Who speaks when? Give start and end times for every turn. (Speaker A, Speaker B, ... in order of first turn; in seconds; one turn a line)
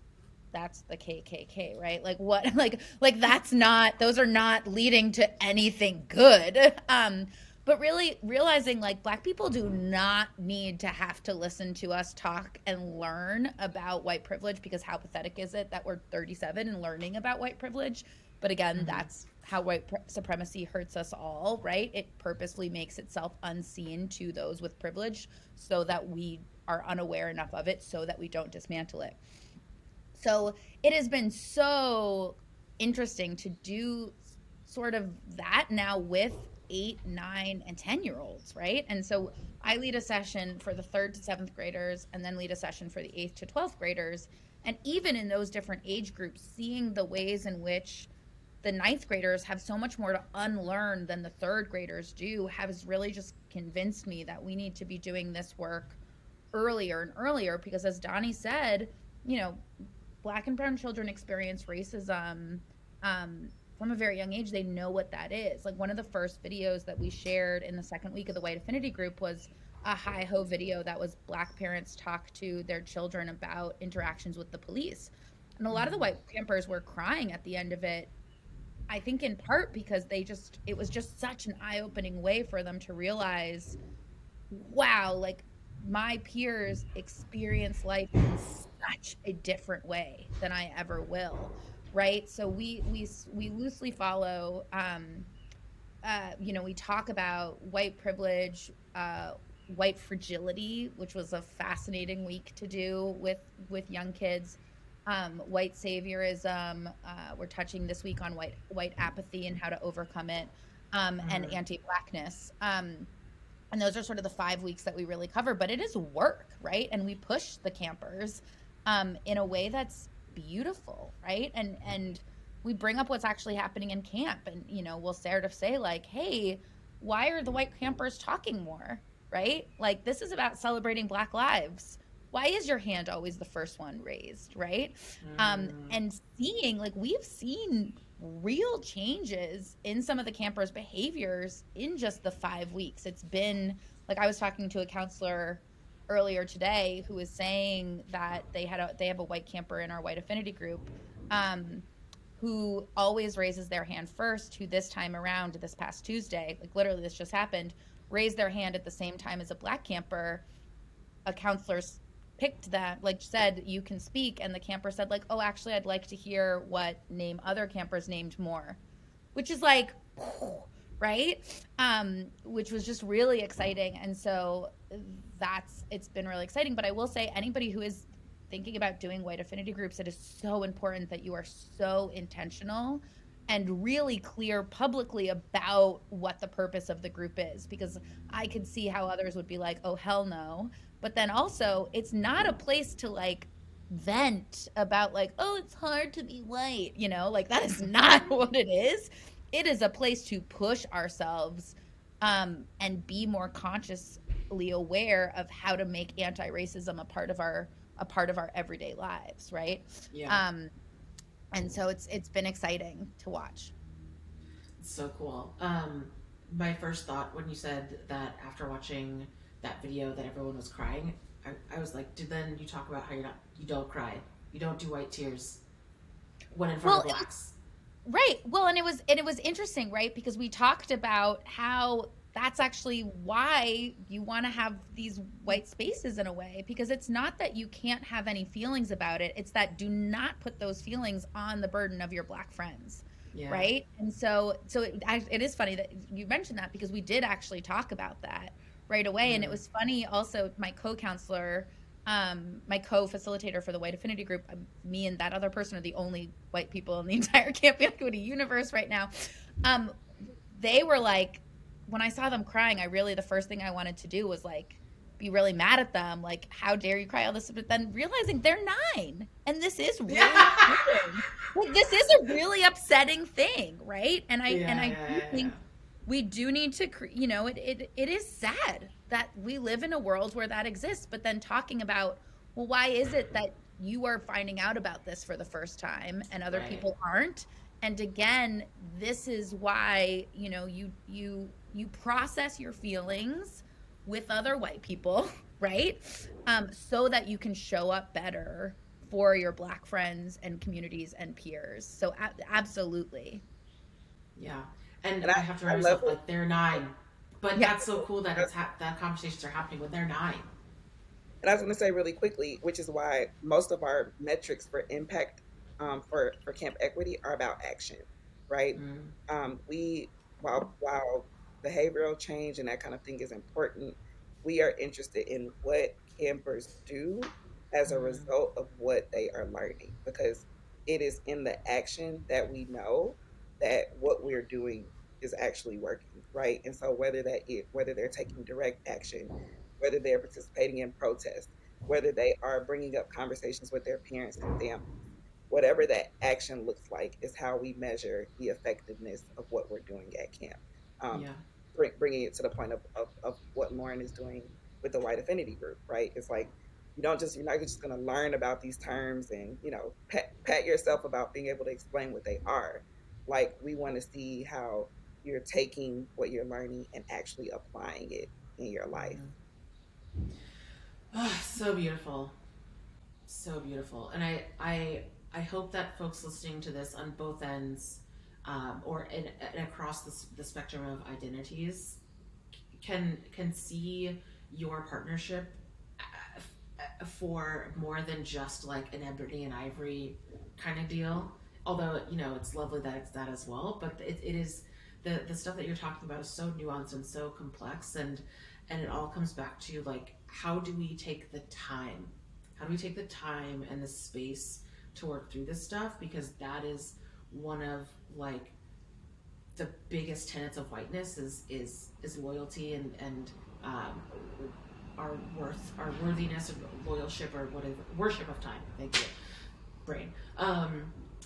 Speaker A: 0.5-29.2
Speaker B: 18.7-19.1
Speaker A: 30.1-48.1
Speaker A: 48.6-56.0
Speaker A: 56.5-59.6
Speaker A: 60.2-78.1
Speaker B: 75.7-76.1
Speaker A: 78.9-83.8
Speaker A: 84.5-95.3
Speaker A: 96.0-113.1
Speaker B: 111.2-111.6
Speaker A: 113.7-151.8
Speaker B: 135.2-136.0
Speaker A: 152.4-160.4
Speaker A: 161.2-168.8
Speaker A: 169.3-210.7
Speaker B: 210.1-210.4
Speaker A: 211.5-213.7
Speaker B: 214.8-225.6
Speaker B: 226.5-227.6
Speaker A: 226.8-227.3
Speaker A: 228.1-260.0
Speaker B: 243.3-243.7
Speaker B: 249.2-249.6
Speaker A: 260.5-275.5
Speaker B: 270.1-271.0
Speaker B: 274.5-275.6
Speaker A: 276.1-303.4
Speaker B: 286.5-286.8
Speaker B: 304.4-310.5
Speaker C: 305.2-306.1
Speaker C: 307.7-308.5
Speaker C: 311.4-344.9
Speaker B: 318.7-319.1
Speaker B: 327.9-328.3
Speaker C: 345.5-369.2
Speaker B: 351.1-351.4
Speaker B: 368.9-369.3
Speaker B: 371.1-372.3
Speaker B: 373.2-382.0
Speaker B: 382.7-408.5
Speaker B: 409.5-419.1
Speaker B: 419.8-421.0